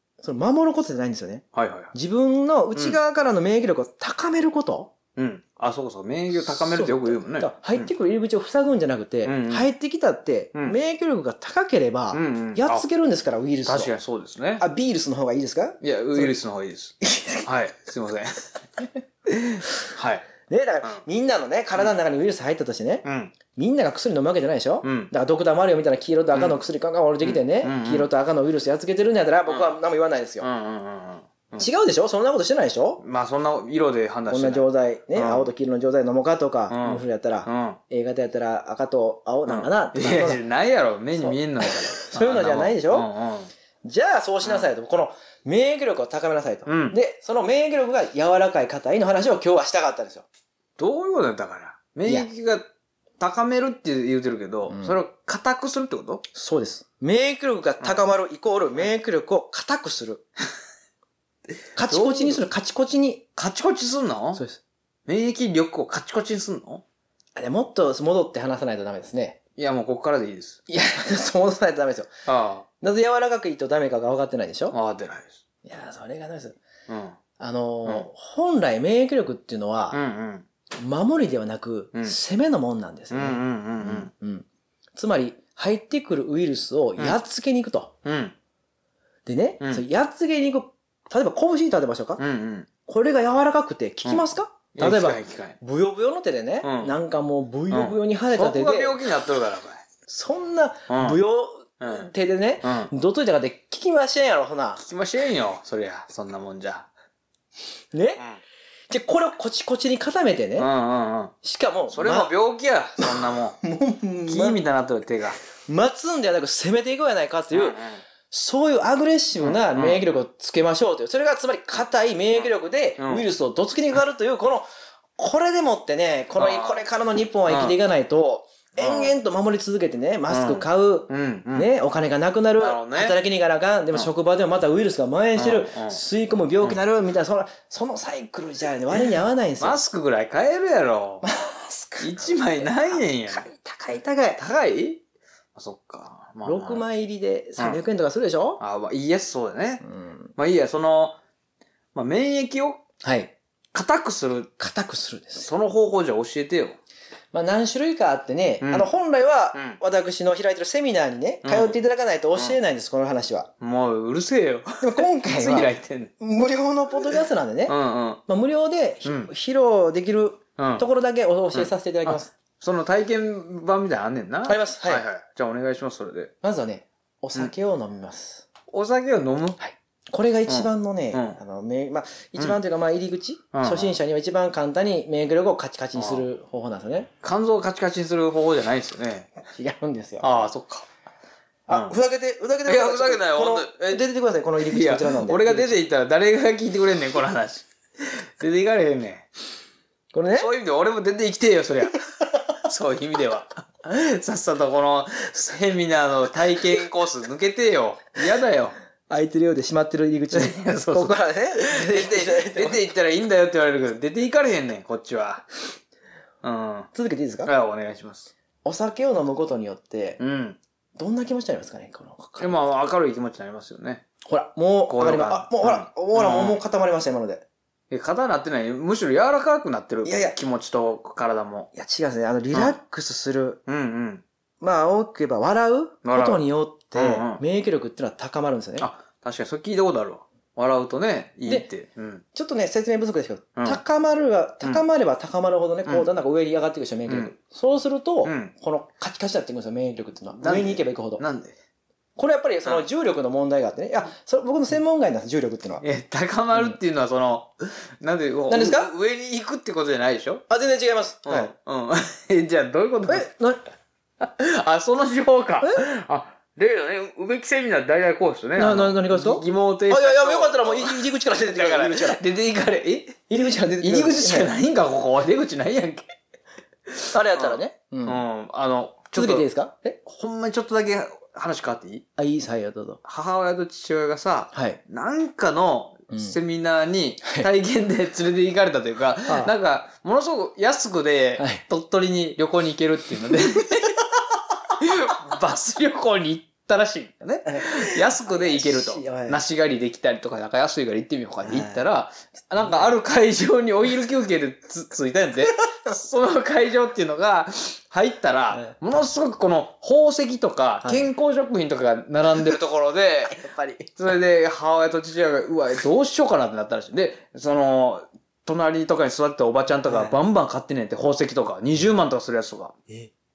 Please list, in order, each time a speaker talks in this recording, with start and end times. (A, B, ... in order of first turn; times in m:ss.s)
0:00.2-0:04.9 A
0:01.5-0:01.9 B
0:05.2-0:07.9 B
0:06.3-0:13.9 A
0:09.2-0:09.7 B
0:12.1-0:12.8 B
0:13.6-0:14.6 B
0:14.6-0:16.4 A
0:15.8-0:20.3 B
0:17.0-0:17.5 A
0:20.5-0:30.5 A
0:23.0-0:23.3 B
0:24.8-0:25.1 B
0:26.3-0:26.6 B
0:27.2-0:28.1 B
0:30.4-0:31.7 B
0:31.6-0:33.0 A
0:33.0-0:35.5 B
0:34.3-0:40.4 A
0:36.7-0:37.8 B
0:39.5-0:43.5 B
0:41.2-0:43.1 A
0:43.8-0:50.2 A
0:44.4-0:44.7 B
0:46.7-0:47.0 B
0:50.8-0:52.7 B
0:53.2-0:56.2 B
0:54.7-0:55.0 A
0:56.3-1:00.2 A
1:01.8-1:03.2 A
1:01.8-1:02.4 B
1:03.4-1:04.4 B
1:04.3-1:04.6 A
1:05.1-1:06.8 B
1:07.4-1:09.4 A
1:09.6-1:10.6 B
1:10.7-1:12.1 A
1:12.3-1:12.6 B
1:12.8-1:14.8 A
1:14.7-1:15.4 B
1:15.6-1:16.6 A
1:16.9-1:17.2 B
1:17.4-1:20.0 A
1:19.9-1:20.4 B
1:20.8-1:27.9 A
1:23.1-1:24.1 B
1:28.0-1:28.3 B
1:29.2-1:32.2 A
1:32.2-1:32.7 B
1:32.8-1:39.0 A
1:34.8-1:35.6 B
1:36.6-1:36.9 B
1:37.7-1:39.8 B
1:40.1-1:44.8 A
1:40.9-1:41.2 B
1:41.8-1:42.1 B
1:42.6-1:42.9 B
1:44.8-1:46.9 B
1:47.9-1:48.2 A
1:48.9-1:50.7 A
1:50.6-1:51.3 B
1:51.4-1:52.3 A
1:51.9-1:53.6 B
1:53.0-1:54.6 A
1:54.3-1:55.4 B
1:55.7-2:04.7 A
1:57.5-1:58.0 B
1:59.4-2:00.0 B
2:03.0-2:03.2 B
2:05.2-2:19.8 A
2:06.4-2:06.8 B
2:07.5-2:07.8 B
2:08.8-2:09.2 B
2:10.3-2:11.7 B
2:12.6-2:13.2 B
2:15.4-2:16.0 B
2:19.6-2:21.2 B
2:21.2-2:24.4 A
2:22.0-2:23.5 B
2:24.4-2:25.0 B
2:25.6-2:26.9 B
2:26.4-2:28.6 A
2:28.6-2:29.8 B
2:29.8-2:30.3 A
2:30.4-2:31.2 B
2:31.9-2:32.8 B
2:33.0-2:33.3 A
2:33.7-2:34.5 B
2:34.6-2:35.5 A
2:35.4-2:36.8 B
2:37.3-2:43.5 A
2:38.6-2:38.9 B
2:39.5-2:39.8 B
2:41.4-2:41.8 B
2:43.6-2:46.1 B
2:44.8-2:47.8 A
2:47.7-2:48.2 B
2:48.3-2:52.3 A
2:49.0-2:49.3 B
2:50.6-2:50.8 B
2:51.5-2:56.3 B
2:54.4-2:55.1 A
2:56.4-2:58.4 A
2:58.7-2:59.6 B
2:59.6-3:07.1 A
3:00.5-3:01.4 B
3:03.5-3:04.0 B
3:06.0-3:06.2 B
3:07.2-3:09.3 B
3:09.5-3:10.4 A
3:10.2-3:10.9 B
3:11.7-3:15.8 A
3:12.7-3:14.0 B
3:14.6-3:19.3 B
3:20.1-3:20.5 A
3:20.3-3:28.8 B
3:29.1-3:32.9 A
3:30.3-3:35.5 B
3:36.4-3:36.9 B
3:36.9-3:37.5 A
3:37.4-3:38.3 B
3:38.6-3:40.2 A
3:40.2-3:40.6 B
3:41.0-3:42.6 A
3:42.4-3:44.0 B
3:44.2-3:47.4 A
3:44.9-3:46.6 B
3:47.9-3:51.7 B
3:50.0-3:50.4 A
3:51.7-3:53.6 A
3:53.7-3:54.2 B
3:54.6-3:58.9 A
3:56.0-3:56.4 B
3:56.9-3:57.4 B
3:58.8-4:02.2 B
4:02.3-4:11.2 A
4:07.1-4:07.3 B
4:08.2-4:08.5 B
4:10.4-4:11.6 B
4:12.2-4:15.8 A
4:15.8-4:20.4 B
4:18.5-4:18.9 A
4:20.5-4:21.5 A
4:21.2-4:23.3 B
4:23.1-4:23.6 A
4:24.2-4:33.2 B
4:28.6-4:32.2 A
4:33.3-4:34.5 A
4:33.8-4:36.1 B
4:36.9-4:39.4 B
4:37.1-4:38.2 A
4:39.1-4:40.0 A
4:40.0-4:42.0 B
4:42.2-4:43.0 A
4:43.0-4:54.1 B
4:44.5-4:44.8 A
4:46.1-4:46.4 A
4:54.7-5:22.7 B
4:57.4-4:59.4 A
5:01.4-5:01.8 A
5:02.4-5:02.9 A
5:10.8-5:11.1 A
5:13.3-5:13.8 A
5:19.9-5:20.2 A